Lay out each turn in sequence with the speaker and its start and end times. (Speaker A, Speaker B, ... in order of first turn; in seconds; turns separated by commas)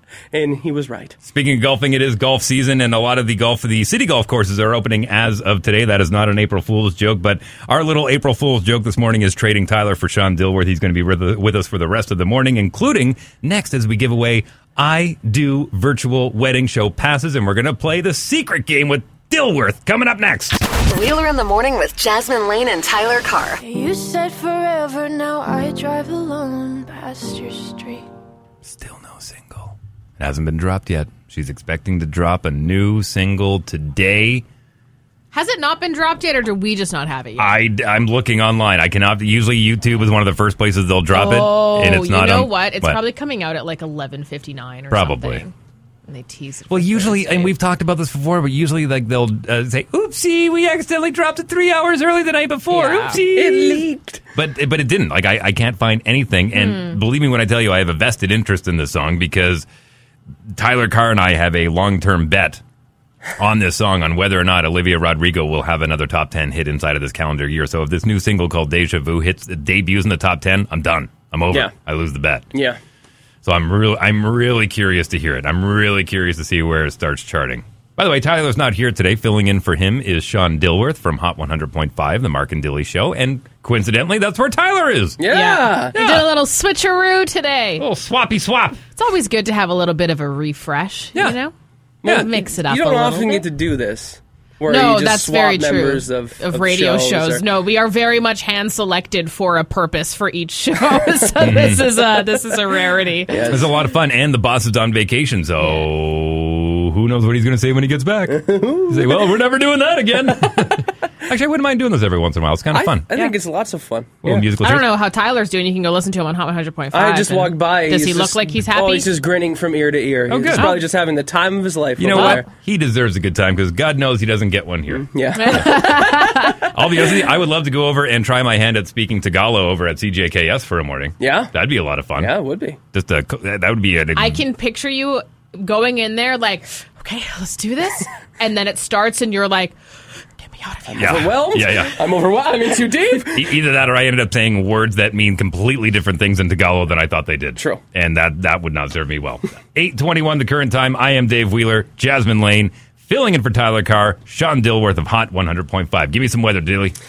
Speaker A: 0.3-1.2, Speaker B: 1.2-20.6, Speaker C: 20.9-23.6, Speaker D: 23.6-28.1, Speaker B: 28.6-34.5, Speaker E: 35.3-37.6, Speaker B: 37.4-43.0, Speaker E: 41.1-45.5, Speaker B: 44.9-45.5, Speaker E: 46.1-47.5, Speaker B: 46.7-59.7, Speaker E: 52.7-53.2, Speaker A: 53.3-54.2, Speaker E: 56.5-57.0, Speaker B: 60.5-62.6, Speaker B: 63.4-72.5, Speaker A: 72.5-72.8, Speaker B: 73.4-85.2, Speaker A: 85.2-86.0, Speaker E: 85.3-87.8, Speaker B: 85.9-86.3, Speaker B: 87.8-88.8, Speaker E: 89.0-91.5, Speaker E: 92.0-93.5, Speaker A: 92.0-97.5, Speaker E: 94.7-103.4, Speaker B: 101.4-102.1, Speaker A: 103.3-103.7, Speaker B: 103.4-113.1, Speaker A: 108.3-109.2, Speaker A: 112.7-114.5, Speaker B: 114.2-114.9, Speaker E: 114.6-119.1, Speaker A: 116.9-122.5, Speaker B: 120.3-120.7, Speaker E: 120.5-120.8, Speaker B: 122.0-125.7, Speaker E: 122.1-122.4, Speaker A: 124.9-126.2, Speaker E: 125.3-126.7, Speaker B: 126.7-132.4, Speaker A: 131.2-131.5, Speaker A: 132.2-132.8, Speaker B: 132.9-134.4, Speaker E: 134.2-139.8, Speaker E: 140.4-141.3, Speaker A: 140.9-143.5, Speaker B: 141.0-141.9, Speaker B: 143.3-157.0, Speaker A: 147.6-147.8